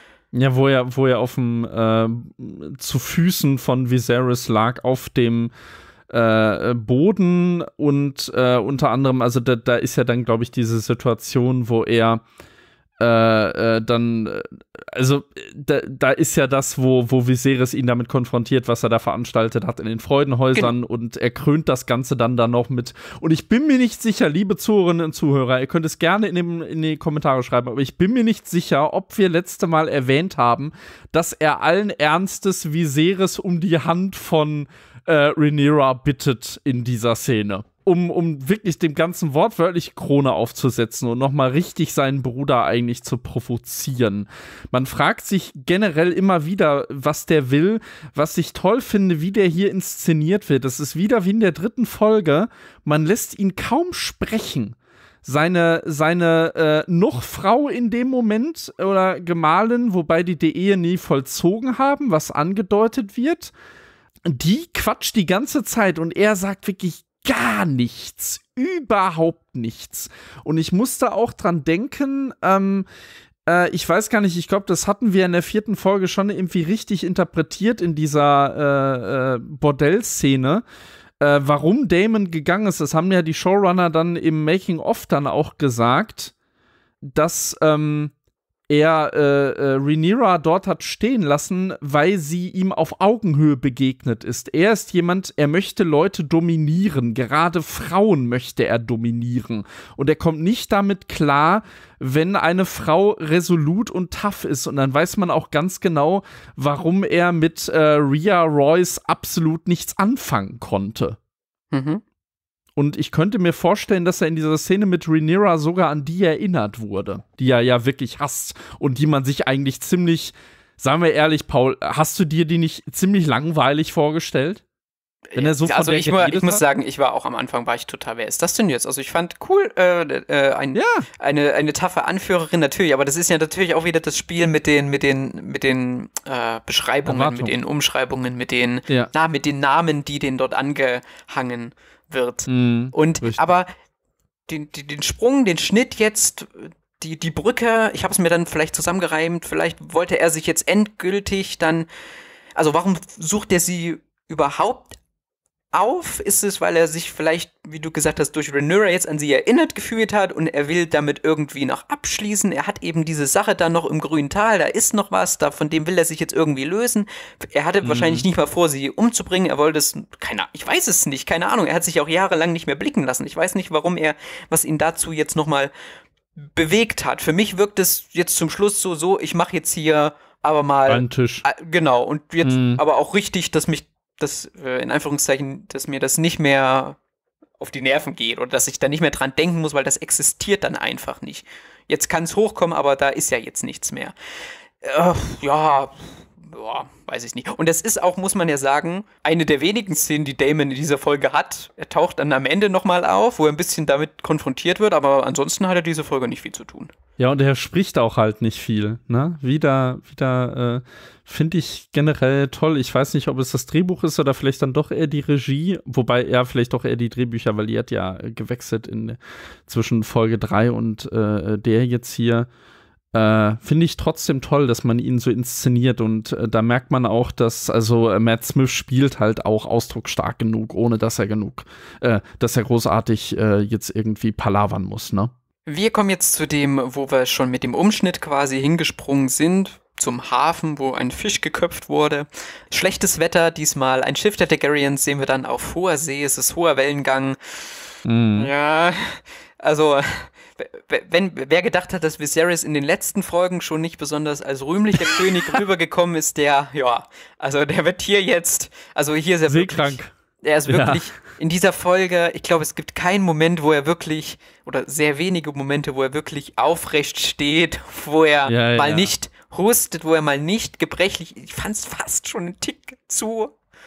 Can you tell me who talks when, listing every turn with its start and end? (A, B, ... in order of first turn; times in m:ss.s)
0:00.3-0:05.5 A
0:06.1-0:12.2 A
0:13.0-1:03.5 A
1:04.3-1:12.9 A
1:13.5-1:20.6 A
1:21.2-1:26.3 A
1:27.0-1:28.1 A
1:28.7-1:51.2 A
1:51.7-1:52.0 B
1:52.8-2:04.6 A
2:05.3-2:23.7 B
2:05.4-2:06.6 A
2:10.8-2:11.1 A
2:17.1-2:17.5 A
2:22.5-2:23.5 A
2:24.5-2:31.9 B
2:32.6-2:35.0 B
2:35.7-2:55.7 B
2:47.8-2:48.2 A
2:56.4-3:07.0 B
3:00.9-3:01.4 A
3:02.4-3:02.8 A
3:07.6-3:14.2 B
3:14.8-3:26.9 B
3:27.2-3:42.5 A
3:43.1-3:55.3 A
3:55.7-4:07.7 B
4:08.0-4:08.5 A
4:08.4-4:33.6 B
4:15.2-4:15.5 A
4:19.5-4:20.1 A
4:20.7-4:21.0 A
4:28.5-4:29.1 A